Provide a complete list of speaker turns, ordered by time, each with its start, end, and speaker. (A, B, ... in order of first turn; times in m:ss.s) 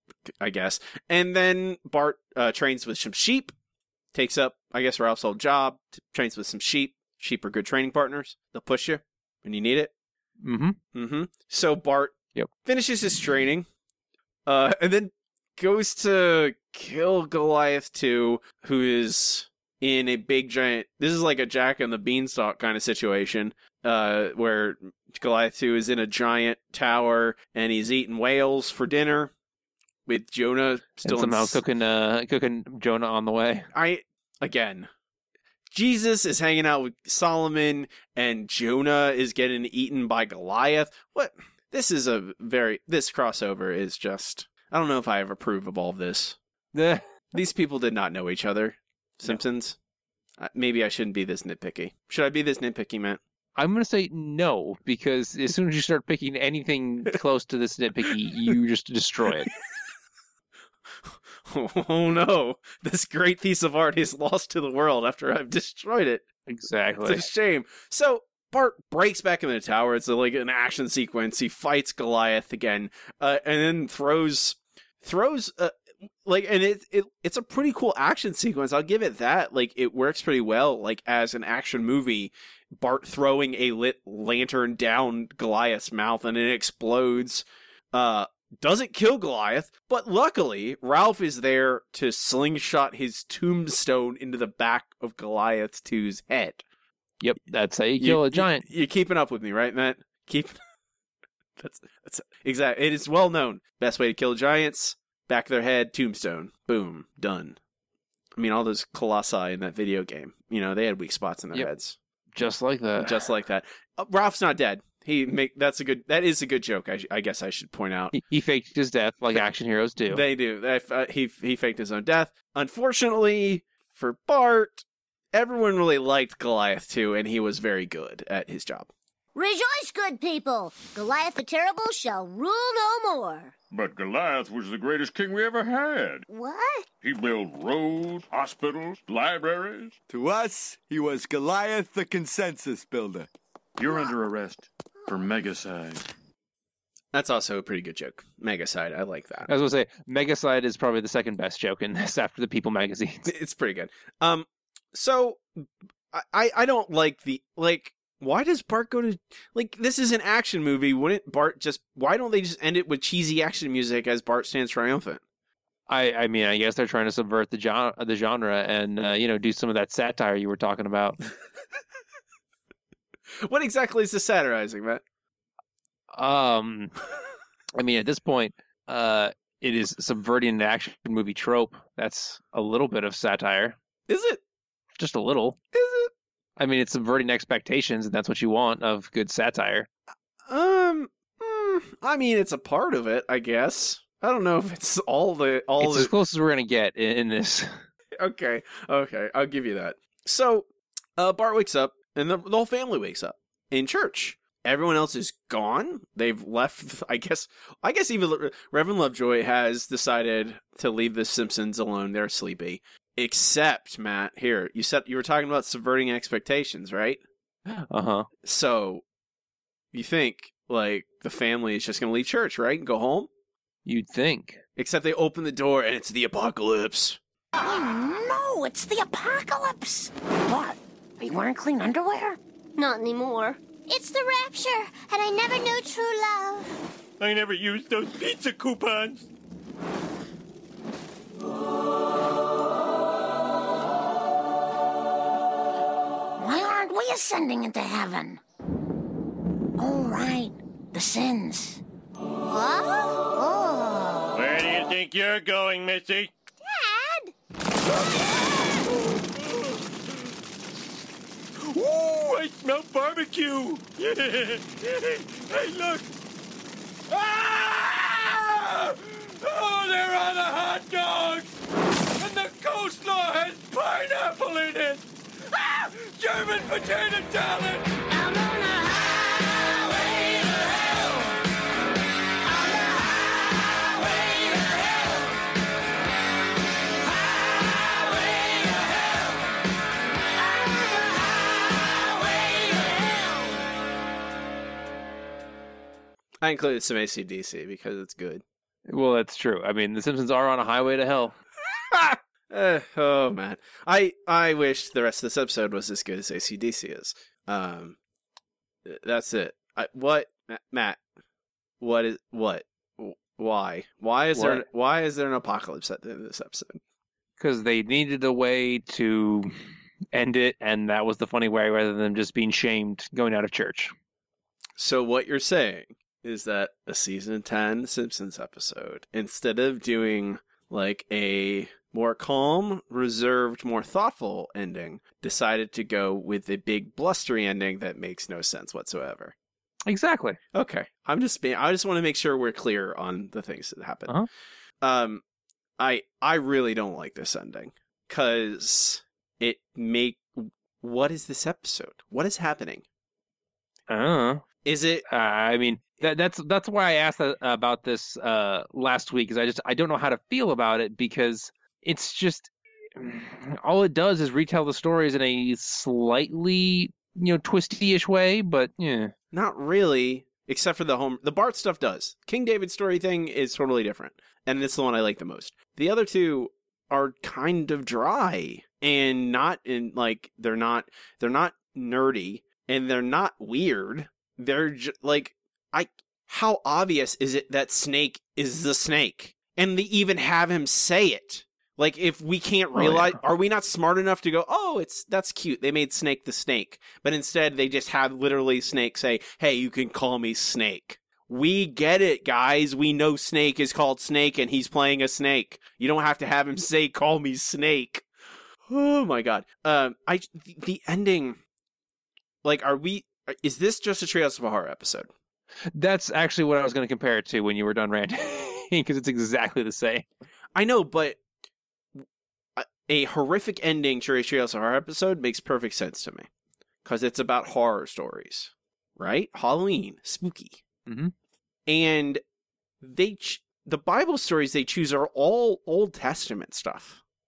0:00.3-0:03.5 A
0:04.1-0:09.9 A
0:10.4-0:10.8 B
0:10.9-0:13.7 A
0:14.5-0:29.3 A
0:30.1-0:31.6 A
0:31.0-0:33.7 B
0:33.7-0:34.9 A
0:35.7-0:46.4 A
0:46.7-0:47.0 B
0:47.3-0:49.8 A
0:50.4-0:53.2 A
0:53.6-0:59.5 B
1:01.4-1:06.2 A
1:06.5-1:07.3 B
1:07.0-1:36.6 A
1:37.2-1:38.7 B
1:38.0-1:40.6 A
1:41.6-1:47.6 A
1:48.4-1:52.0 A
1:52.3-1:53.2 B
1:53.0-1:58.2 A
1:58.1-2:00.2 B
2:00.1-2:08.9 A
2:09.4-2:13.5 C
2:13.7-2:16.3 D
2:16.3-2:16.9 C
2:17.0-2:20.0 D
2:20.1-2:23.3 E
2:23.8-2:24.6 D
2:25.2-2:26.0 D
2:27.1-2:29.5 A
2:29.5-2:33.3 B
2:33.3-2:45.2 A
2:45.9-2:51.2 B
2:53.4-2:55.0 A
2:56.1-2:56.9 B
2:57.8-3:03.8 B
3:04.1-3:04.4 A
3:05.0-3:05.6 B
3:05.7-3:06.1 A
3:06.6-3:09.9 B
3:10.5-3:16.1 A
3:15.8-3:17.8 B
3:18.2-3:20.7 A
3:21.2-3:37.2 A
3:37.7-3:38.3 B
3:38.4-3:39.0 A
3:39.9-3:43.3 A
3:43.9-3:44.6 B
3:44.8-3:47.2 A
3:47.6-3:52.4 F
3:52.8-3:56.7 C
3:57.2-3:59.3 G
4:06.4-4:08.4 F
4:09.8-4:11.8 F
4:12.4-4:14.4 C
4:14.3-4:16.3 G
4:16.6-4:17.3 C
4:21.7-4:26.0 G
4:27.1-4:31.5 G
4:32.2-4:35.0 G
4:35.7-4:38.0 G
4:56.4-4:58.4 A
4:58.9-5:01.4 B
5:01.9-5:08.0 A
5:08.8-5:11.0 A
5:11.8-5:16.8 A
5:14.4-5:14.6 B
5:17.4-5:19.5 B
5:20.1-5:23.9 B
5:24.8-5:39.4 A
5:39.9-5:40.4 B
5:40.5-5:44.2 A
5:44.8-5:45.2 A
5:45.8-5:52.8 A
5:53.9-5:54.4 B
5:54.6-5:55.1 A
5:55.1-6:09.1 B
6:09.3-6:48.1 A
6:32.8-6:33.2 B
6:48.7-6:51.4 A
6:52.4-6:55.1 A
6:55.8-7:00.1 B
7:00.6-7:01.2 A
7:02.6-7:06.3 A
7:06.8-7:10.6 A
7:10.9-7:11.1 B
7:11.7-7:12.2 A
7:12.8-7:17.0 A